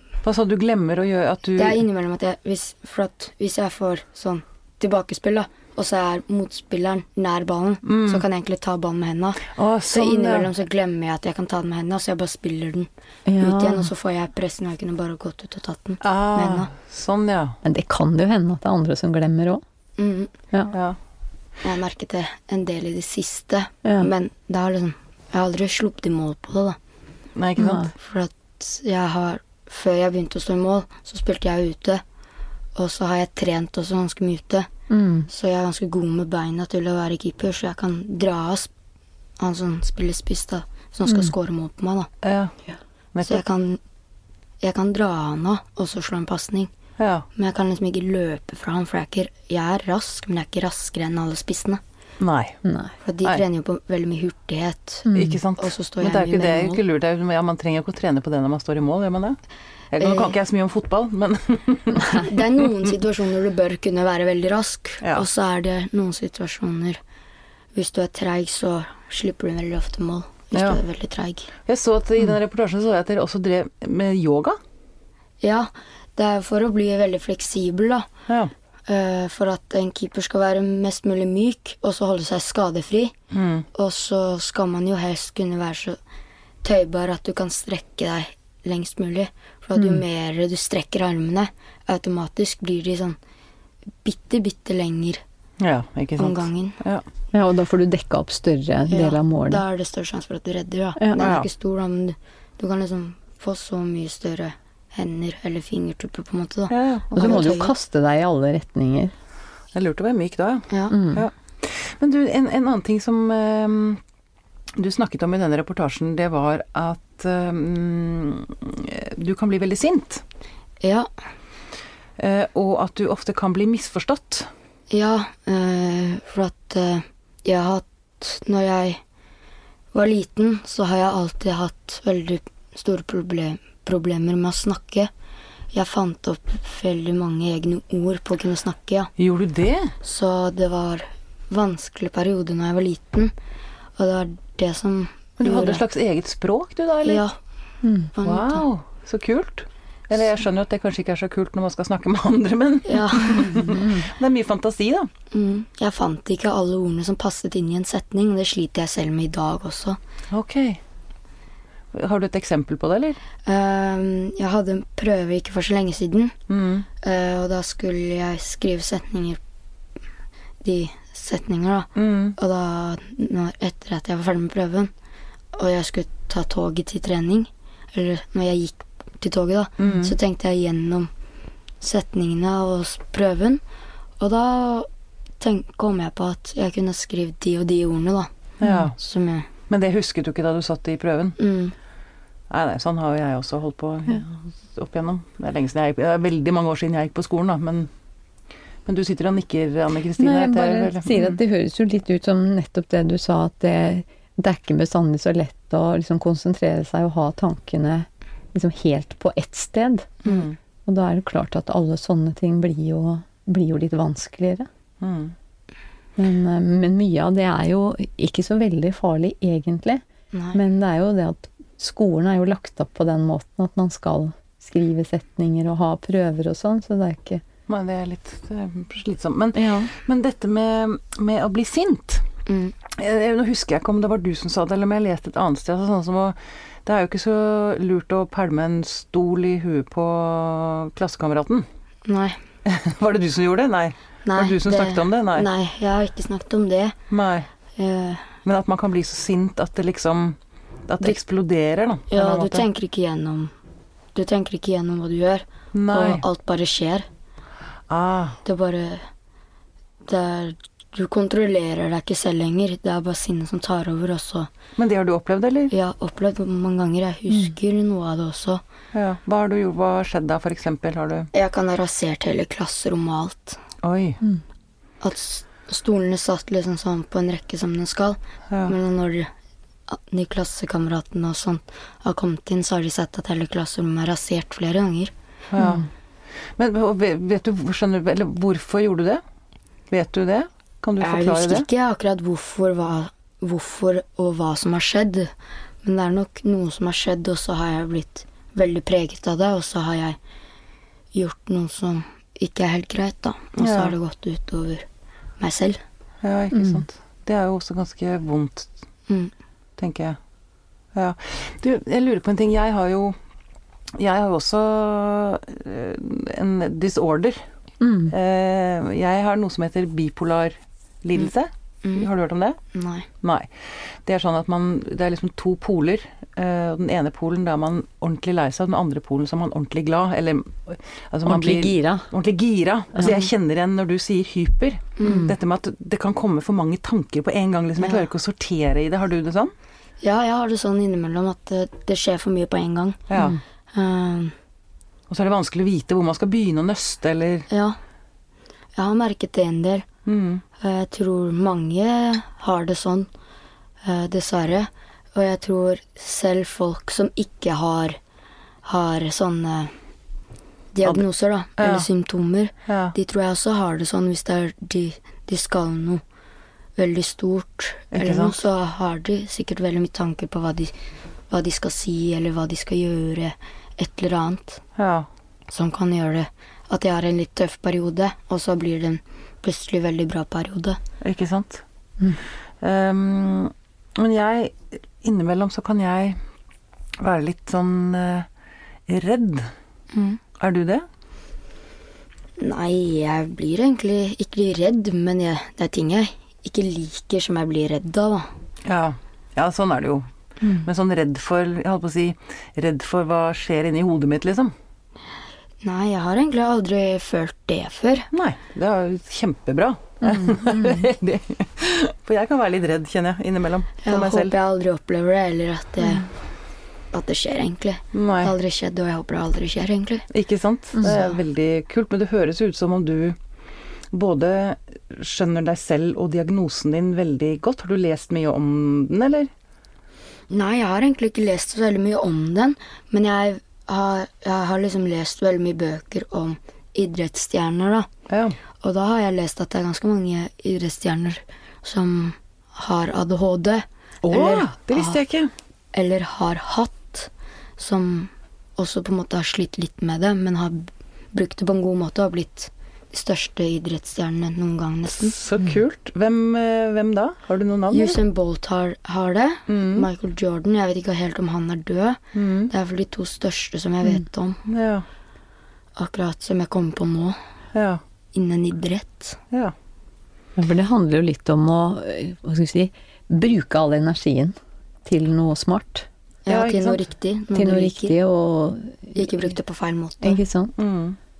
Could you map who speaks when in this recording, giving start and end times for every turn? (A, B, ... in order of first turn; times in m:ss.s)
0:00.2-0:01.8 A
0:01.6-0:12.9 B
0:07.8-0:08.2 A
0:09.5-0:10.5 A
0:13.3-0:13.9 C
0:13.4-0:16.7 B
0:16.0-0:17.6 A
0:17.6-0:19.6 C
0:20.0-0:20.3 B
0:20.7-0:21.0 A
0:21.6-0:26.8 B
0:27.4-0:27.9 A
0:27.6-0:27.9 C
0:27.9-0:32.0 B
0:32.8-0:34.7 B
0:34.9-0:35.3 C
0:35.3-0:38.7 B
0:39.4-0:42.1 B
0:41.1-0:41.3 C
0:42.2-0:42.5 A
0:43.1-0:43.4 A
0:43.2-0:43.8 B
0:44.6-0:46.7 B
0:47.0-0:47.2 A
0:47.4-0:51.8 B
0:52.2-0:52.6 A
0:52.6-0:52.9 C
0:53.0-0:55.1 B
0:55.0-0:55.4 C
0:55.1-0:59.4 A
0:55.6-0:56.8 B
0:59.9-1:02.7 A
1:00.0-1:00.4 B
1:01.9-1:02.2 C
1:02.2-1:07.0 B
1:05.0-1:05.3 A
1:07.7-1:11.5 B
1:10.5-1:10.8 A
1:11.7-1:14.6 A
1:15.4-1:18.1 B
1:18.9-1:23.1 B
1:23.3-1:23.6 A
1:23.7-1:26.0 B
1:26.6-1:33.2 B
1:29.8-1:30.0 C
1:34.0-1:35.2 B
1:35.6-1:37.0 A
1:36.2-1:36.8 B
1:37.3-1:39.6 C
1:38.9-1:47.7 B
1:41.0-1:41.2 C
1:41.2-1:41.5 A
1:46.7-1:47.5 A
1:47.2-1:49.1 C
1:49.7-1:54.0 A
1:50.7-1:51.0 B
1:50.9-1:51.2 C
1:54.8-2:00.2 A
2:00.8-2:01.1 B
2:02.2-2:04.5 A
2:04.9-2:09.0 B
2:09.9-2:15.1 B
2:15.7-2:19.1 B
2:19.2-2:19.9 A
2:20.0-2:23.3 B
2:24.0-2:25.8 B
2:25.4-2:27.2 A
2:27.0-2:27.4 B
2:27.8-2:28.1 C
2:28.1-2:28.6 B
2:28.2-2:35.1 A
2:32.8-2:33.6 B
2:33.4-2:34.1 C
2:35.3-2:40.0 B
2:40.3-2:40.8 A
2:41.9-2:43.2 A
2:43.4-2:46.3 B
2:46.5-2:46.8 A
2:47.0-2:49.4 B
2:50.6-2:54.9 B
2:52.0-2:52.4 A
2:55.5-3:01.1 B
2:59.8-3:00.1 A
3:01.8-3:03.6 B
3:04.2-3:04.9 B
3:05.4-3:08.3 B
3:08.6-3:09.0 A
3:08.6-3:08.9 C
3:09.0-3:09.5 B
3:09.7-3:11.4 A
3:11.4-3:11.7 B
3:12.5-3:17.9 A
3:18.8-3:21.4 A
3:20.2-3:30.2 C
3:30.2-3:30.6 A
3:30.8-3:34.7 C
3:35.0-3:35.3 A
3:36.2-3:40.0 C
3:40.3-3:40.6 B
3:40.5-3:47.4 C
3:47.7-3:52.2 A
3:49.5-3:49.9 C
3:52.5-3:52.7 B
3:52.9-4:01.6 A
4:02.0-4:02.4 B
4:02.6-4:05.5 A
4:04.2-4:07.0 B
4:07.1-4:07.5 A
4:07.8-4:08.4 B
4:08.4-4:12.6 A
4:12.1-4:13.5 B
4:14.1-4:17.0 B
4:15.7-4:16.2 A
4:17.9-4:18.4 A
4:18.4-4:19.0 B
4:20.0-4:24.5 B
4:24.8-4:25.7 A
4:25.7-4:28.6 B
4:28.9-4:31.3 A
4:31.3-4:33.6 B
4:33.8-4:34.2 A
4:35.0-4:39.3 B
4:39.9-4:45.1 B
4:45.5-4:45.8 A
4:45.6-4:45.9 C
4:46.6-4:49.2 A
4:49.9-4:51.7 A
4:51.0-4:55.3 B
4:55.8-5:00.2 B
5:01.1-5:04.8 B
5:03.6-5:03.9 A
5:05.4-5:05.8 B
5:06.2-5:08.7 A
5:06.5-5:06.8 C
5:09.8-5:10.2 A
5:10.9-5:13.2 A
5:14.0-5:17.4 A
5:17.8-5:18.1 C
5:18.1-5:22.6 A
5:21.8-5:22.1 B
5:22.7-5:23.1 B
5:23.2-5:39.5 A
5:31.2-5:32.1 C
5:33.0-5:33.3 B
5:35.0-5:35.3 B
5:35.0-5:35.3 C
5:37.8-5:38.1 B
5:40.0-5:43.1 B
5:43.1-5:43.4 A
5:43.7-5:44.3 B
5:45.1-5:47.5 A
5:47.5-5:47.8 B
5:48.8-5:49.8 B
5:50.0-5:50.4 A
5:50.6-5:53.1 B
5:53.8-5:58.0 B
5:58.6-5:59.7 B
6:00.7-6:06.0 B
6:01.6-6:01.9 A
6:02.7-6:02.9 A
6:06.8-6:10.7 B
6:07.9-6:08.4 A
6:11.3-6:14.6 B
6:14.8-6:15.1 A
6:15.5-6:20.8 B
6:21.0-6:21.6 A
6:22.6-6:26.2 A
6:27.0-6:28.3 A
6:28.9-6:29.5 A
6:29.9-6:30.2 B
6:30.4-6:30.8 A
6:32.4-6:38.3 B
6:38.6-6:40.1 A
6:40.6-6:44.5 A
6:45.6-6:48.1 B
6:48.1-6:54.3 A
6:50.0-6:50.9 C
6:53.8-6:56.1 B
6:56.9-7:00.1 B
6:57.9-6:58.3 A
7:00.1-7:03.2 A
7:00.8-7:01.2 B
7:03.9-7:09.3 A
7:10.3-7:17.9 B
7:18.1-7:18.4 A
7:18.6-7:25.0 B
7:24.0-7:25.3 A
7:25.7-7:35.2 B
7:35.0-7:38.0 A
7:37.7-7:44.4 B
7:39.5-7:39.9 A
7:42.1-7:42.5 A
7:44.5-7:44.8 A
7:45.8-7:47.2 B
7:47.5-7:47.8 A
7:48.1-7:49.2 B
7:50.4-7:55.9 C
7:56.2-7:58.0 B
7:56.3-7:56.8 A
7:57.3-7:59.3 C
7:59.0-8:00.2 B
8:00.0-8:00.6 C
8:00.6-8:01.0 A